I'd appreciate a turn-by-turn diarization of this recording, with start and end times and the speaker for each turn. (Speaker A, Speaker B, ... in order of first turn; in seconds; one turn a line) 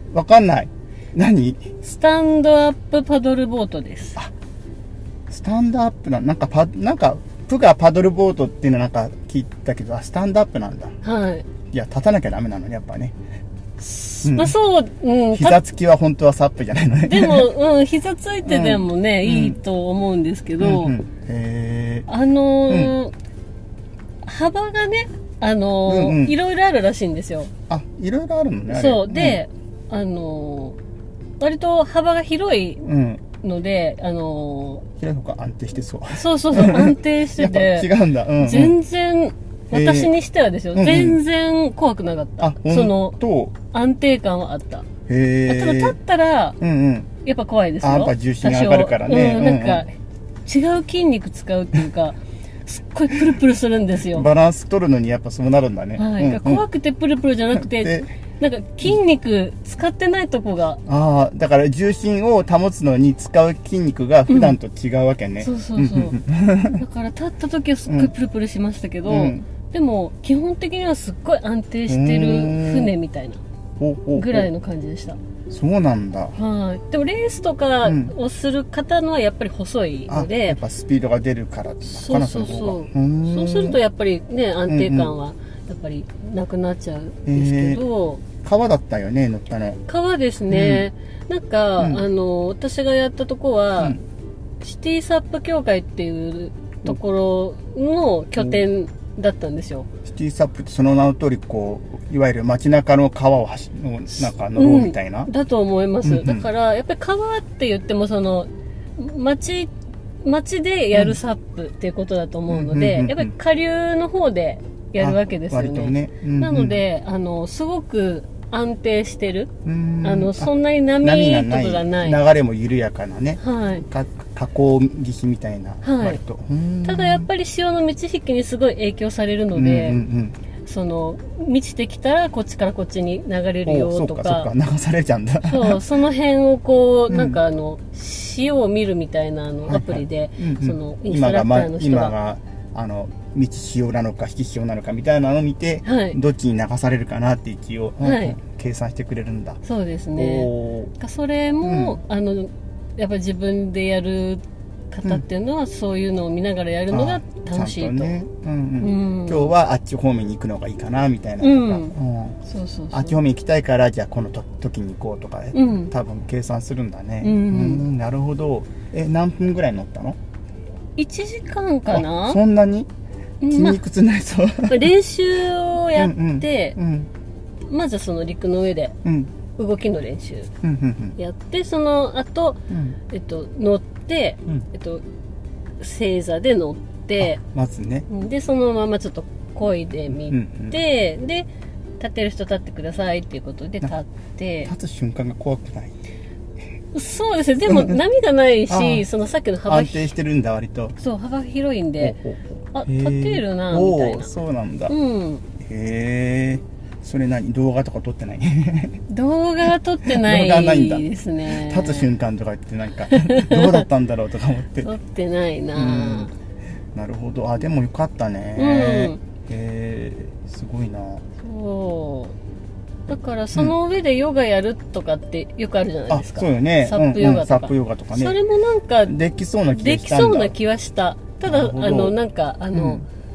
Speaker A: 0.1-1.8
Speaker B: 1.9-4.2
Speaker A: 5.3-10.9
Speaker B: 11.0-11.5
Speaker A: 11.7-13.1
Speaker B: 13.8-15.6
Speaker A: 14.2-14.5
Speaker A: 15.3-17.5
Speaker B: 17.1-20.9
Speaker A: 18.4-19.6
Speaker A: 20.6-22.1
Speaker B: 22.1-23.1
Speaker A: 22.7-22.9
Speaker B: 24.2-27.5
Speaker A: 25.8-26.4
Speaker A: 27.7-29.4
Speaker B: 28.7-30.8
Speaker B: 31.4-34.8
Speaker A: 32.8-33.2
Speaker A: 35.0-38.8
Speaker B: 36.1-43.2
Speaker A: 39.7-40.1
Speaker A: 40.7-41.2
Speaker A: 42.4-43.5
Speaker B: 43.7-44.8
Speaker A: 45.1-46.0
Speaker B: 45.5-46.6
Speaker A: 46.6-47.1
Speaker B: 47.2-49.9
Speaker A: 47.8-49.8
Speaker B: 50.5-54.3
Speaker A: 54.1-56.6
Speaker B: 56.0-60.8
Speaker A: 57.5-58.1
Speaker A: 60.9-66.8
Speaker B: 64.3-64.5
Speaker B: 65.4-66.2
Speaker B: 66.7-73.4
Speaker A: 69.0-69.4
Speaker A: 71.9-72.9
Speaker A: 73.8-74.5
Speaker B: 74.1-75.2
Speaker A: 75.5-76.3
Speaker B: 76.3-80.6
Speaker A: 77.8-78.1
Speaker A: 80.1-83.8
Speaker B: 81.9-88.2
Speaker A: 84.7-85.1
Speaker A: 87.2-87.8
Speaker A: 88.4-89.8
Speaker B: 89.9-94.0
Speaker A: 90.5-90.9
Speaker A: 91.8-92.0
Speaker B: 94.6-99.9
Speaker A: 98.4-98.6
Speaker A: 100.0-105.3
Speaker B: 104.2-109.7
Speaker A: 106.0-106.5
Speaker B: 110.2-119.5
Speaker A: 112.5-113.3
Speaker A: 115.0-116.8
Speaker A: 119.6-127.3
Speaker B: 120.0-122.2
Speaker B: 123.4-123.8
Speaker B: 125.8-126.2
Speaker B: 126.8-130.0
Speaker A: 129.5-130.4
Speaker B: 130.7-134.5
Speaker A: 133.7-135.8
Speaker B: 135.4-142.1
Speaker A: 137.1-137.4
Speaker A: 139.7-149.6
Speaker B: 145.8-146.2
Speaker B: 148.0-148.4
Speaker B: 149.6-158.2
Speaker A: 150.2-150.9
Speaker A: 151.6-152.0
Speaker A: 156.9-162.4
Speaker B: 158.8-159.5
Speaker B: 161.4-161.9
Speaker B: 162.5-163.2
Speaker A: 162.9-170.2
Speaker B: 165.5-165.9
Speaker B: 167.2-167.8
Speaker B: 171.0-172.4
Speaker A: 171.9-172.9
Speaker B: 173.4-173.8
Speaker A: 173.5-174.9
Speaker B: 174.7-176.8
Speaker A: 175.9-177.1
Speaker B: 177.7-178.9
Speaker A: 179.0-179.3
Speaker B: 179.5-180.5
Speaker A: 180.6-181.2
Speaker B: 181.2-185.0
Speaker A: 182.7-183.0
Speaker B: 185.8-187.4
Speaker A: 187.2-188.1
Speaker B: 188.1-191.5
Speaker A: 190.2-190.8
Speaker B: 192.0-194.7
Speaker A: 194.6-195.9
Speaker B: 196.9-200.1
Speaker A: 197.7-198.0
Speaker A: 198.7-199.1
Speaker A: 199.6-201.0
Speaker B: 201.0-202.2
Speaker A: 202.0-204.9
Speaker B: 202.7-204.3
Speaker B: 204.9-205.4
Speaker A: 205.6-209.0
Speaker B: 209.1-212.1
Speaker A: 210.1-214.9
Speaker B: 213.1-213.8
Speaker B: 214.8-216.3
Speaker A: 215.7-216.3
Speaker A: 216.9-221.2
Speaker B: 218.6-219.2
Speaker B: 221.4-222.3
Speaker B: 223.1-229.1
Speaker A: 226.1-228.4
Speaker A: 229.0-230.5
Speaker B: 229.7-233.1
Speaker A: 231.4-232.2
Speaker A: 232.7-233.0